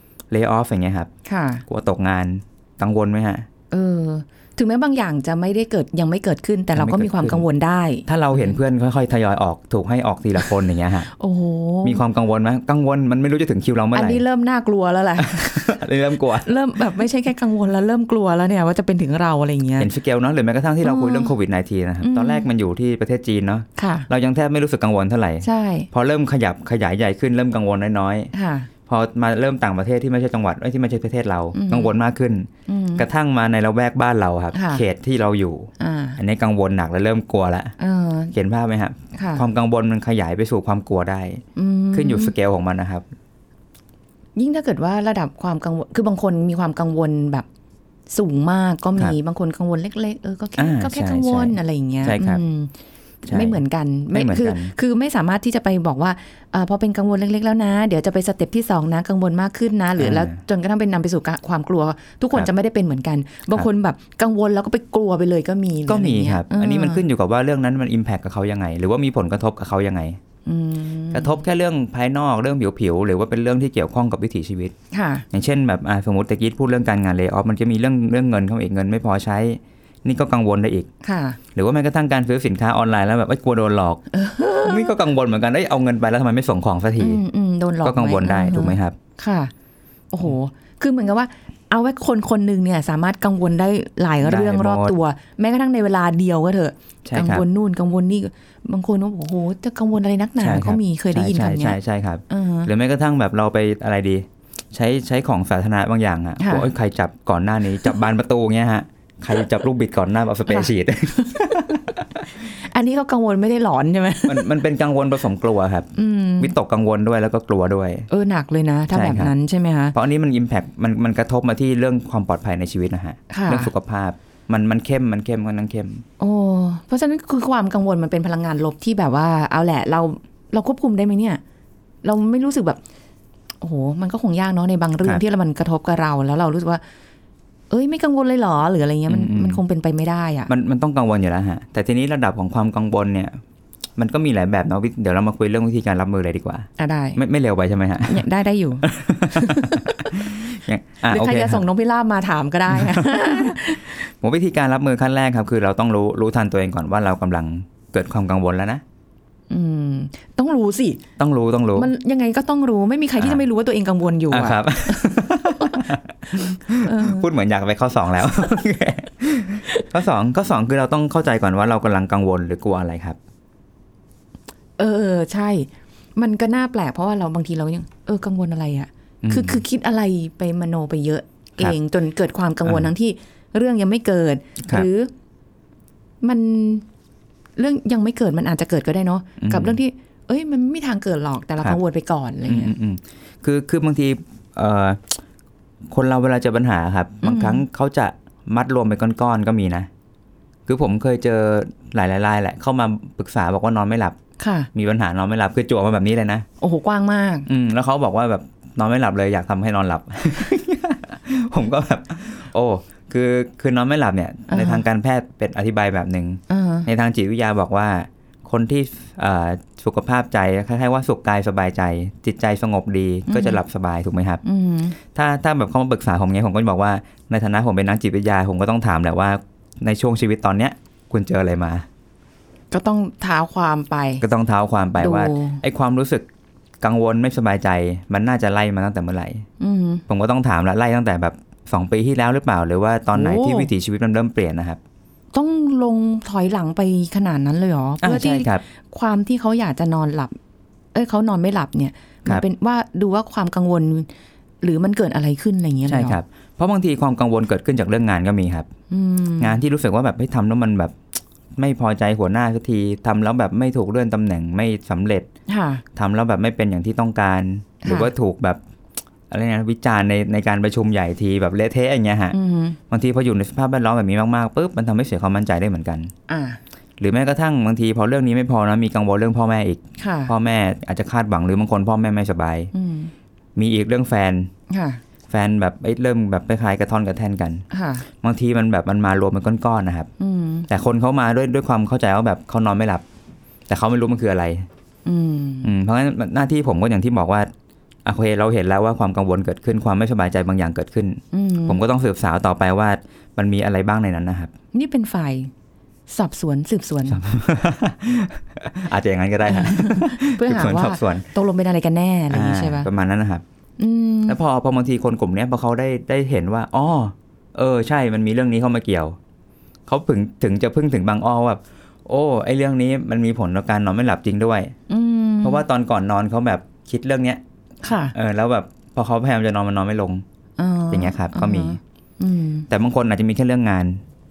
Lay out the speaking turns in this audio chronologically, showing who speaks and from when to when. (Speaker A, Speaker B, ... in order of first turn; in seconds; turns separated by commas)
Speaker A: 0.3-1.1, Speaker B: 1.2-1.6, Speaker A: 1.7-3.5, Speaker B: 3.7-8.6, Speaker A: 6.8-7.5, Speaker A: 8.1-11.1, Speaker B: 11.1-12.0, Speaker A: 11.8-14.2, Speaker B: 13.9-15.8, Speaker A: 15.2-16.5, Speaker B: 16.4-19.9, Speaker A: 19.8-28.3, Speaker B: 20.8-21.4, Speaker B: 22.0-22.5, Speaker B: 23.8-24.1, Speaker B: 25.4-25.9, Speaker B: 28.3-28.7, Speaker A: 28.9-37.8, Speaker B: 31.5-31.9, Speaker B: 32.7-33.0, Speaker B: 34.5-34.9, Speaker B: 35.8-36.2, Speaker B: 37.8-38.3, Speaker A: 38.3-43.1, Speaker B: 39.2-39.5, Speaker B: 41.6-42.3, Speaker B: 44.4-47.5, Speaker B: 48.1-52.7, Speaker A: 50.6-52.4, Speaker B: 53.3-67.0, Speaker A: 53.3-53.6, Speaker A: 54.1-54.7, Speaker A: 60.0-60.4, Speaker A: 65.9-70.2, Speaker B: 70.5-71.4, Speaker A: 71.1-74.7, Speaker B: 74.9-75.3, Speaker A: 75.3-80.9, Speaker B: 81.0-81.4, Speaker A: 81.5-84.0, Speaker B: 84.1-85.0, Speaker A: 84.6-87.2, Speaker B: 87.0-89.5, Speaker A: 87.8-89.0, Speaker B: 90.1-101.8, Speaker A: 94.2-95.0, Speaker A: 97.1-97.5, Speaker A: 100.4-112.0, Speaker B: 102.3-102.7, Speaker B: 106.4-106.7, Speaker B: 110.5-111.8, Speaker B: 112.4-114.5, Speaker A: 114.3-118.1, Speaker B: 116.0-116.5, Speaker B: 118.1-120.0, Speaker A: 118.9-119.3, Speaker A: 119.9-126.0, Speaker B: 123.3-123.7, Speaker B: 126.2-131.4, Speaker B: 132.0-132.8, Speaker B: 133.6-136.8, Speaker B: 137.7-140.5, Speaker A: 139.1-139.6, Speaker A: 140.5-143.4, Speaker A: 144.0-148.2, Speaker B: 146.8-147.2, Speaker B: 148.0-150.2, Speaker A: 148.8-151.7, Speaker B: 151.1-154.0, Speaker A: 152.7-153.6, Speaker A: 154.1-158.8, Speaker B: 159.5-161.0, Speaker A: 161.2-161.9, Speaker B: 161.8-167.3, Speaker A: 164.3-173.2, Speaker B: 174.8-185.1, Speaker A: 179.2-179.6, Speaker A: 182.7-182.9, Speaker B: 186.2-186.8, Speaker B: 187.6-192.7, Speaker A: 189.4-189.8, Speaker A: 192.5-195.2, Speaker A: 195.9-199.9, Speaker B: 197.2-197.6, Speaker A: 200.7-204.2, Speaker B: 204.4-204.7, Speaker A: 204.7-206.5, Speaker B: 206.6-207.5, Speaker A: 207.5-224.4, Speaker B: 214.5-214.8, Speaker B: 216.5-216.9, Speaker B: 223.3-223.6, Speaker B: 224.4-225.0, Speaker A: 225.1-231.9, Speaker B: 232.7-234.2, Speaker A: 234.2-236.3, Speaker B: 235.0-235.6, Speaker A: 236.8-239.5, Speaker B: 239.6-240.0, Speaker A: 240.1-244.8, Speaker B: 243.2-243.7, Speaker B: 245.3-250.4, Speaker A: 248.0-248.6, Speaker B: 250.9-254.1, Speaker B: 254.6-256.2, Speaker A: 255.9-258.7, Speaker B: 258.9-259.6, Speaker A: 259.4-261.0, Speaker A: 261.6-265.3, Speaker B: 265.5-265.8, Speaker A: 265.9-268.6, Speaker B: 267.8-268.1, Speaker A: 269.3-272.4, Speaker B: 272.3-272.8, Speaker A: 272.9-276.1, Speaker B: 276.3-276.6, Speaker A: 277.0-282.7, Speaker B: 280.0-280.3, Speaker B: 282.7-283.1, Speaker A: 283.6-284.5, Speaker B: 284.7-285.0, Speaker A: 285.3-287.7, Speaker B: 287.7-288.1, Speaker A: 288.2-290.1, Speaker B: 290.2-290.7, Speaker A: 290.7-293.1, Speaker A: 293.7-294.7, Speaker B: 295.1-295.7, Speaker A: 295.6-297.5, Speaker A: 298.1-304.5, Speaker B: 301.3-301.8, Speaker B: 304.7-305.5, Speaker B: 306.1-307.2, Speaker A: 307.1-311.3, Speaker B: 309.5-312.9, Speaker A: 312.3-313.4, Speaker B: 313.8-314.4, Speaker A: 314.3-319.2, Speaker A: 319.9-324.8, Speaker B: 324.9-325.6, Speaker A: 325.4-327.4, Speaker B: 327.8-328.1, Speaker A: 328.1-330.2, Speaker B: 330.6-332.7, Speaker A: 330.9-331.8, Speaker A: 332.7-334.0